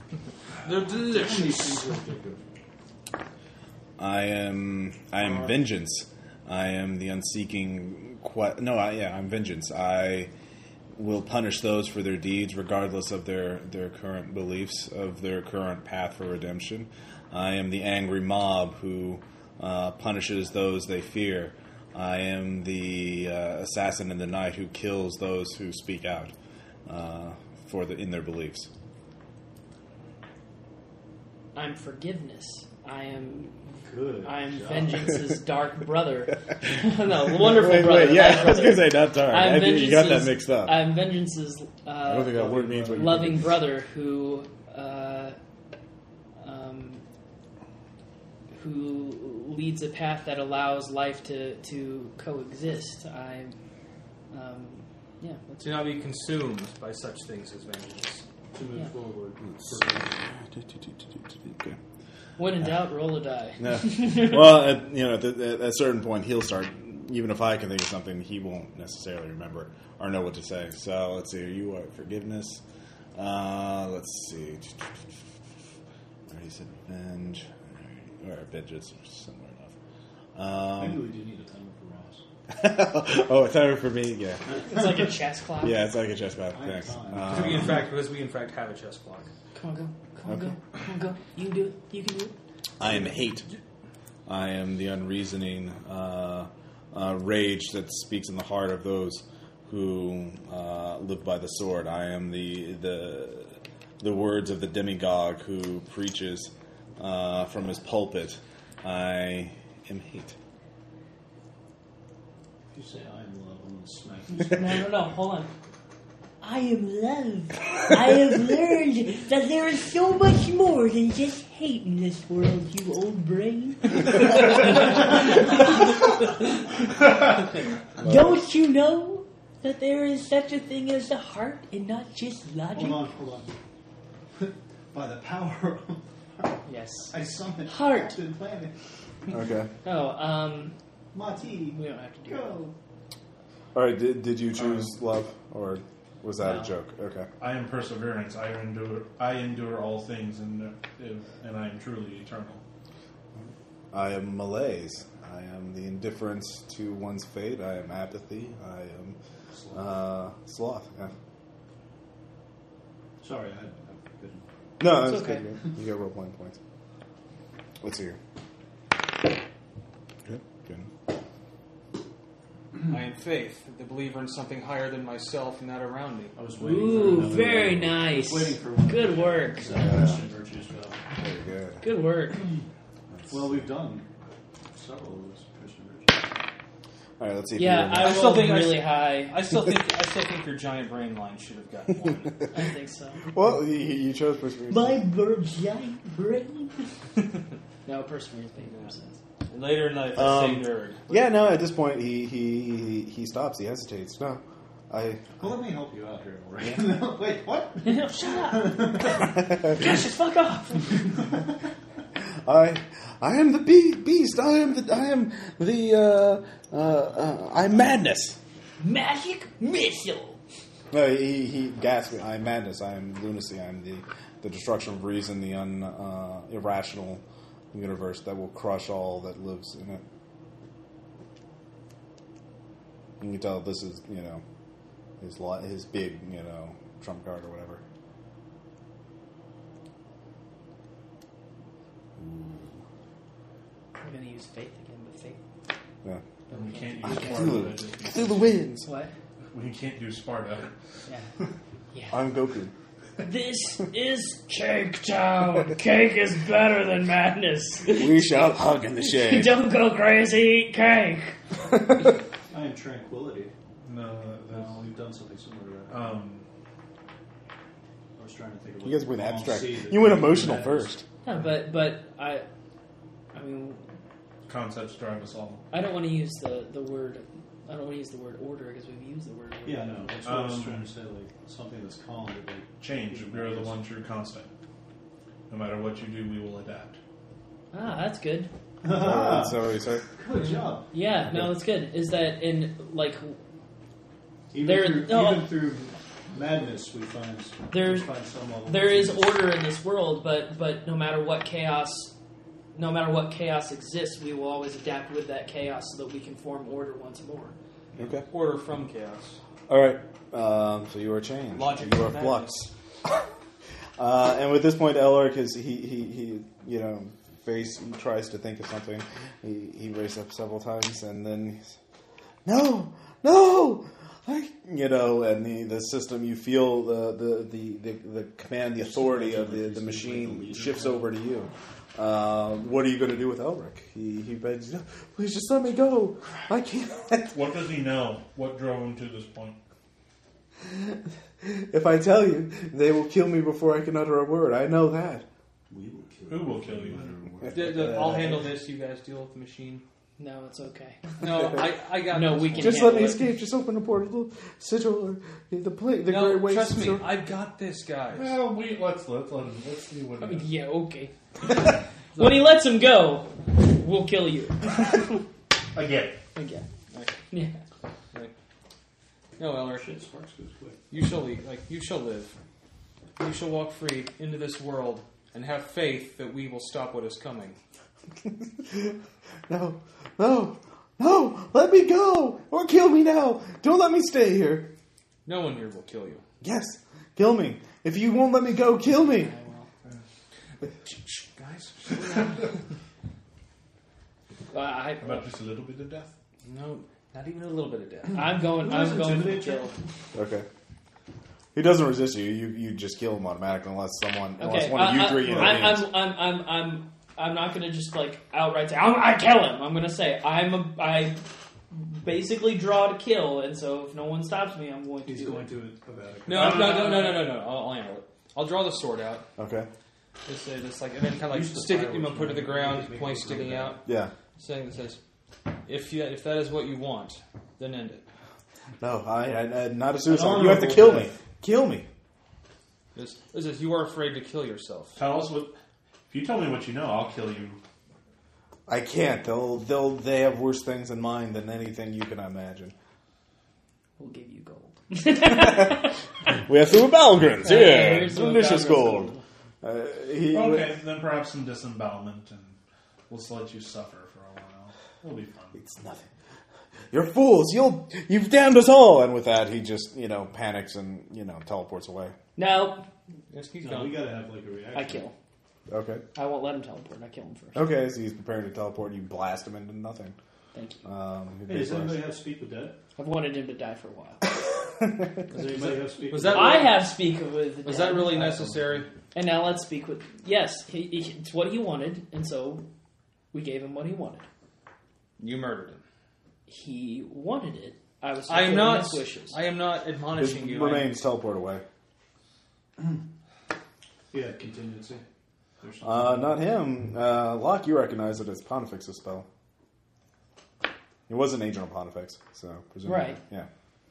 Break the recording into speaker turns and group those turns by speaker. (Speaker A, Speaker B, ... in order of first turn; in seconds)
Speaker A: 0.6-1.9, 55.6-58.2, 87.3-89.3, 172.8-176.4, 188.0-192.4, 199.5-201.2, 308.3-309.4, 311.5-312.6, 347.5-349.8, 351.2-353.0, 356.1-358.4, 366.9-367.2, 369.4-370.0, 370.9-372.4, 373.2-377.6, 385.2-386.2, 390.8-392.6, 396.4-398.3, 416.3-419.3, 420.3-423.8, 424.4-425.0, 425.7-428.1, 432.9-435.0, 463.3-464.1, 475.3-476.9, 477.6-478.9, 485.2-485.8, 488.3-490.9
Speaker B: 0.9-2.4, 5.2-5.6, 33.8-35.1, 42.3-43.2, 58.5-60.1, 80.8-82.2, 86.5-87.8, 112.7-114.7, 132.7-133.5, 134.4-136.6, 137.1-138.7, 141.1-142.7, 159.5-159.9, 163.2-164.4, 176.3-181.0, 183.3-184.1, 184.7-186.3, 205.4-209.3, 262.5-263.5, 264.5-266.1, 268.2-270.9, 279.6-283.8, 288.8-290.9, 294.5-299.4, 328.8-331.1, 345.7-348.1, 369.8-370.8, 398.3-399.7, 405.2-405.6, 415.1-416.6, 421.3-423.8, 430.1-431.1, 463.6-465.0, 471.5-472.8, 475.3-476.7, 478.1-478.9, 494.1-495.0, 495.6-496.4
Speaker C: 4.0-10.3, 11.0-26.3, 26.9-28.7, 37.3-40.9, 42.0-43.6, 59.6-61.8, 63.6-72.6, 73.2-75.0, 76.3-79.8, 80.3-81.0, 82.5-85.0, 85.6-87.8, 92.8-93.5, 94.3-110.3, 139.3-139.7, 143.7-147.3, 153.4-159.2, 159.7-161.1, 164.8-166.6, 167.8-168.2, 170.2-170.9, 179.7-180.2, 181.2-181.8, 187.2-188.4, 193.3-195.0, 200.1-205.5, 209.2-209.8, 212.2-218.4, 220.9-230.0, 233.2-234.4, 235.2-237.8, 242.2-242.8, 247.0-248.9, 252.1-252.7, 257.9-259.7, 261.7-262.0, 268.8-271.0, 288.9-290.1, 307.9-308.2, 309.7-313.2, 314.0-321.6, 322.4-337.4, 340.6-345.2, 347.4-348.4, 352.6-357.1, 378.6-379.0, 379.5-384.7, 386.4-389.3, 400.1-400.5, 401.5-405.9, 419.4-419.7, 423.9-424.1, 428.8-431.9, 438.7-442.7, 445.2-450.7, 455.6-456.1, 456.9-462.1, 465.7-466.1, 467.6-470.1, 470.8-472.0, 490.2-491.6, 495.8-499.3, 501.1-503.5
Speaker D: 31.6-33.6, 34.2-45.4, 46.4-47.0, 48.5-53.6, 54.3-55.9, 62.4-64.6, 84.6-85.8, 89.5-92.4, 114.5-115.5, 116.4-127.0, 128.0-133.1, 136.7-138.2, 139.8-140.8, 141.7-142.6, 146.4-146.7, 164.9-165.5, 176.6-179.8, 181.8-182.5, 187.6-189.4, 192.5-193.2, 194.7-196.9, 197.8-199.2, 207.8-211.2, 218.8-220.4, 244.0-245.4, 246.5-247.6, 248.8-249.1, 253.2-261.4, 271.2-272.5, 273.3-273.9, 275.7-280.1, 287.7-288.5, 290.9-293.4, 294.6-295.6, 297.7-298.1, 298.7-302.1, 302.7-307.6, 350.2-351.1, 352.1-353.2, 360.2-365.2, 366.4-366.6, 367.3-367.6, 389.0-389.7, 394.5-395.3, 398.1-399.8, 404.4-415.5, 416.3-417.3, 444.0-446.0, 447.4-449.2, 462.4-462.9, 464.7-465.1, 466.1-467.6, 470.5-470.9, 473.0-474.3, 476.3-478.3, 479.1-482.7, 483.3-484.2, 486.5-489.4, 502.9-503.2
Speaker E: 144.6-144.9, 147.4-152.6, 246.5-248.7, 249.5-250.7, 263.8-264.9, 265.9-266.4, 274.5-275.6, 280.2-280.9, 282.8-284.5, 285.5-287.0, 337.3-339.6, 346.3-347.2, 358.1-360.5, 365.7-366.2, 395.0-396.1, 416.5-416.8, 435.0-435.5, 436.1-437.6, 450.3-452.6, 453.1-455.6